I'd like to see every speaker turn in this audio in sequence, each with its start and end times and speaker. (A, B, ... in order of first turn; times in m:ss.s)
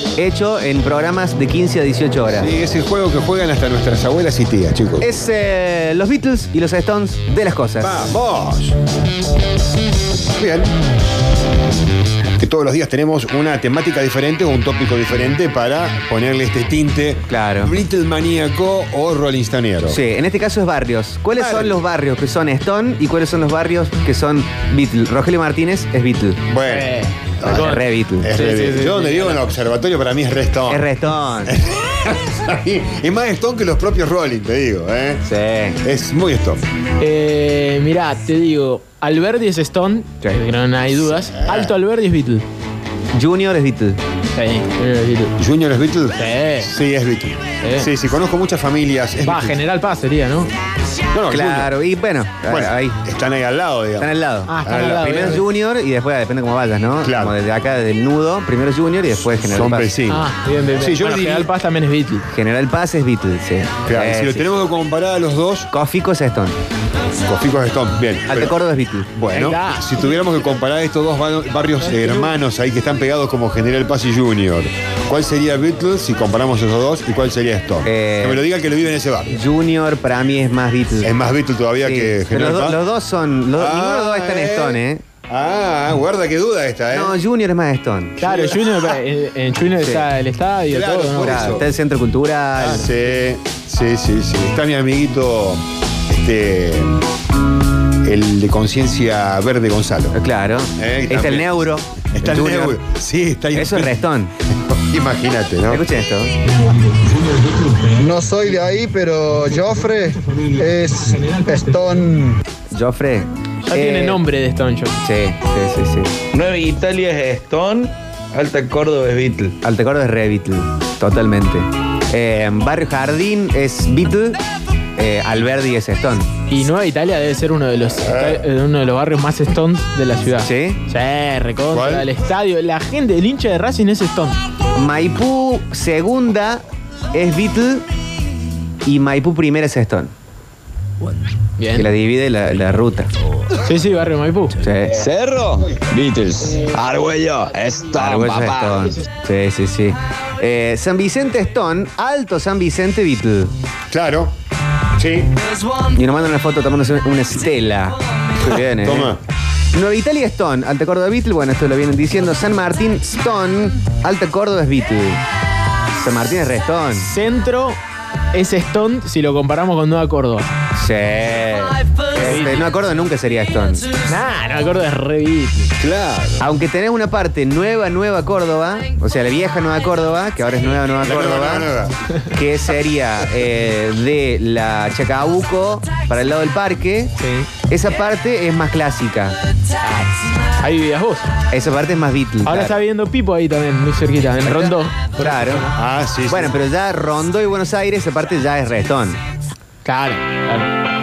0:00.2-0:02.5 A
0:02.3-0:05.1 B
0:05.0-0:08.1 A
0:07.8-0:08.8 B
0:10.4-0:10.7 B
0:12.4-0:20.0 B
0:17.3-0:17.7 A
0:19.9-0:26.4 A
0:21.4-0:21.8 B
0:26.5-0:26.9 B
0:26.6-0:29.4 C
0:27.4-0:28.3 A
0:28.2-0:30.8 B
0:30.7-0:31.5 A
0:31.5-0:35.2 B
0:35.2-0:35.8 A
0:35.8-0:36.6 B
0:37.0-0:42.4 C
0:41.3-0:41.7 B
0:43.1-0:44.0 A
0:44.3-0:45.3 C
0:45.4-0:49.6 B
0:46.1-0:46.7 C
0:47.6-0:47.9 C
0:49.2-0:50.5 C
0:51.1-0:51.7 B
0:51.3-0:53.0 A
0:52.5-0:54.1 B
0:54.0-0:59.9 A
0:54.5-0:55.4 C
0:54.7-0:55.1 B
0:57.0-0:57.3 B
0:59.5-1:00.2 B
1:00.1-1:02.2 C
1:00.7-1:01.5 B
1:02.3-1:04.4 A
1:03.9-1:05.7 B
1:05.7-1:06.6 A
1:07.2-1:08.5 B
1:08.3-1:09.1 A
1:09.1-1:19.4 B
1:09.3-1:10.1 C
1:11.8-1:12.3 C
1:17.8-1:18.4 A
1:19.3-1:21.1 A
1:21.0-1:22.8 B
1:21.8-1:25.0 A
1:23.6-1:27.1 B
1:26.9-1:28.2 A
1:28.2-1:31.6 C
1:28.2-1:28.6 B
1:29.8-1:30.1 A
1:30.7-1:31.6 B
1:31.2-1:32.9 A
1:32.6-1:37.0 B
1:38.0-1:40.1 B
1:40.1-1:42.8 A
1:40.8-1:41.5 B
1:42.0-1:43.9 B
1:43.5-1:44.3 A
1:44.8-1:45.8 B
1:45.7-1:46.3 A
1:47.9-1:52.4 D
1:52.7-1:54.2 A
1:53.7-1:55.0 C
1:55.0-1:56.1 A
1:56.3-1:59.6 E
1:59.6-2:04.4 A
2:05.0-2:06.3 A
2:06.5-2:14.4 C
2:08.0-2:08.4 B
2:10.4-2:10.8 A
2:11.7-2:12.1 B
2:14.7-2:17.8 A
2:18.8-2:20.1 A
2:21.6-2:21.9 C
2:21.7-2:23.1 A
2:23.6-2:24.6 C
2:24.6-2:24.9 A
2:24.9-2:28.9 E
2:28.0-2:33.5 A
2:33.9-2:34.3 B
2:35.0-2:35.3 B
2:35.9-2:39.2 A
2:38.8-2:39.2 B
2:39.7-2:45.2 A
2:46.0-2:47.1 A
2:47.0-2:47.8 C
2:48.3-2:50.5 C
2:50.7-2:53.8 A
2:52.2-2:52.6 C
2:54.0-2:55.7 C
2:55.8-2:56.4 B
2:56.4-3:01.7 A
3:01.0-3:01.9 B
3:02.3-3:07.1 A
3:07.2-3:07.5 C
3:07.7-3:09.4 A
3:09.8-3:11.3 C
3:11.5-3:12.8 A
3:12.4-3:15.7 C
3:14.4-3:15.7 A
3:15.7-3:16.6 B
3:16.3-3:19.2 A
3:19.8-3:20.7 C